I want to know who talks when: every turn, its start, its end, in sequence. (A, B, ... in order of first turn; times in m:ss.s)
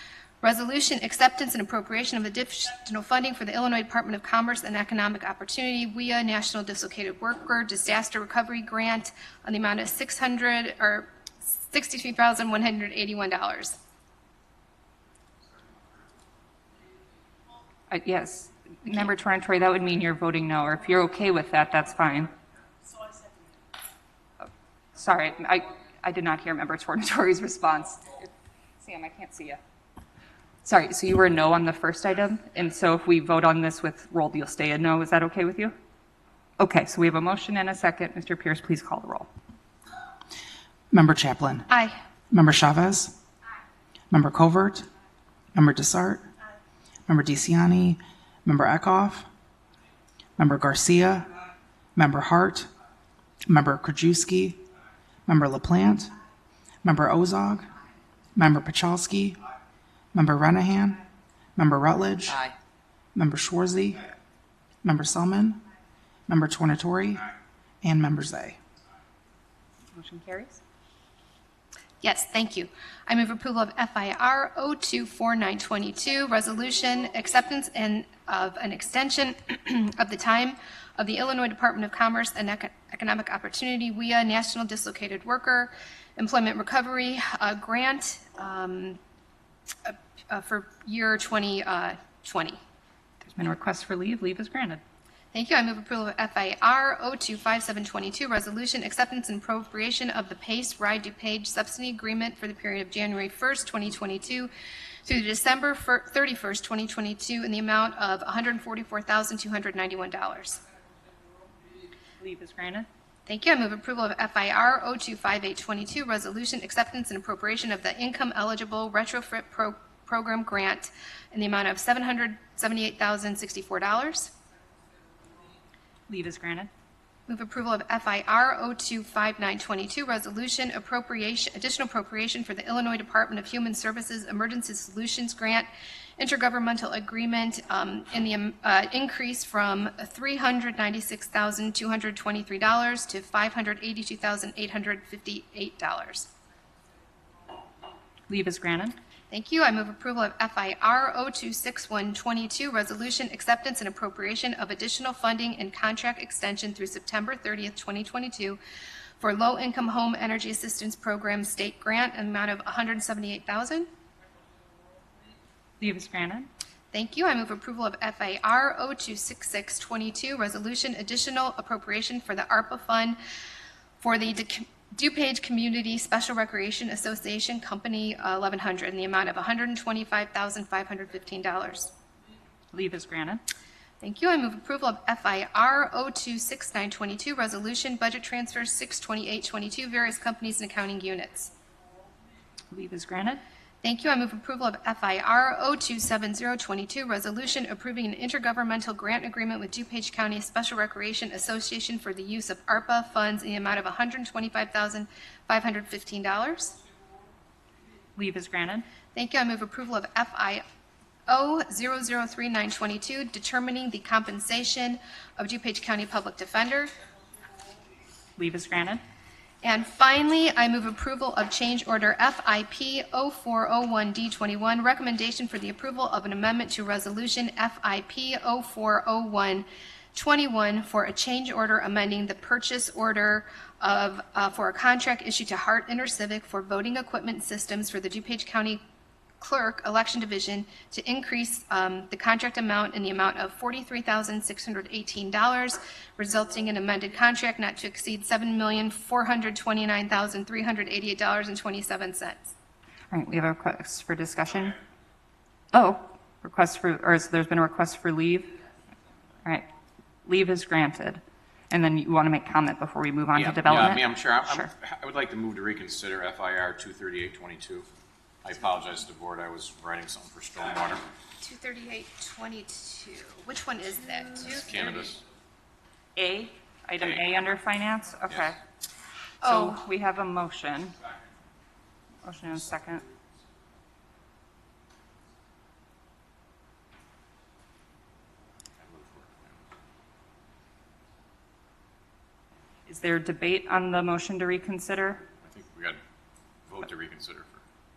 0:00.4-0:13.8 A
0:17.9-0:22.3 B
0:24.9-0:29.6 B
0:30.6-0:35.7 B
0:36.6-0:39.3 B
0:40.9-0:41.7 C
0:41.7-0:42.0 A
0:42.3-0:43.1 C
0:44.1-0:44.9 C
0:45.5-0:46.3 C
0:47.1-0:49.3 C
0:50.4-0:51.3 C
0:51.9-0:52.7 C
0:53.5-0:54.6 C
0:55.3-0:56.1 C
0:56.8-0:57.7 C
0:58.4-0:59.4 C
1:00.1-1:01.0 C
1:01.6-1:02.4 C
1:03.1-1:04.1 C
1:04.8-1:05.6 C
1:06.3-1:07.3 C
1:07.8-1:08.6 C
1:09.9-1:10.6 B
1:12.0-1:29.0 A
1:29.8-1:32.6 A
1:33.2-1:34.8 B
1:35.3-1:44.5 A
1:45.0-1:50.6 A
1:52.2-1:52.9 B
1:53.3-2:04.3 A
2:06.1-2:06.7 B
2:07.3-2:26.3 A
2:28.3-2:29.0 B
2:29.3-2:38.6 A
2:39.2-2:43.9 A
2:45.8-2:46.5 B
2:46.9-2:53.2 A
2:54.0-3:01.9 A
3:02.7-3:03.4 B
3:04.0-3:11.5 A
3:12.7-3:13.4 B
3:13.8-3:26.8 A
3:28.2-3:28.8 B
3:29.1-3:30.6 A
3:31.3-3:36.9 A
3:38.4-3:39.0 B
3:39.6-3:58.8 A
3:59.4-4:12.5 A
4:13.1-4:14.8 B
4:15.7-4:18.6 B
4:20.2-4:24.7 B
4:23.3-4:27.9 D
4:28.4-4:31.0 D
4:31.4-4:35.0 A
4:34.4-4:35.2 D
4:36.2-4:38.6 B
4:37.0-4:37.3 D
4:39.4-4:39.8 A
4:39.4-4:41.0 B
4:42.2-4:43.0 B
4:48.8-4:49.6 D
4:52.9-4:55.2 B
4:55.4-4:56.0 D
4:56.7-4:57.6 D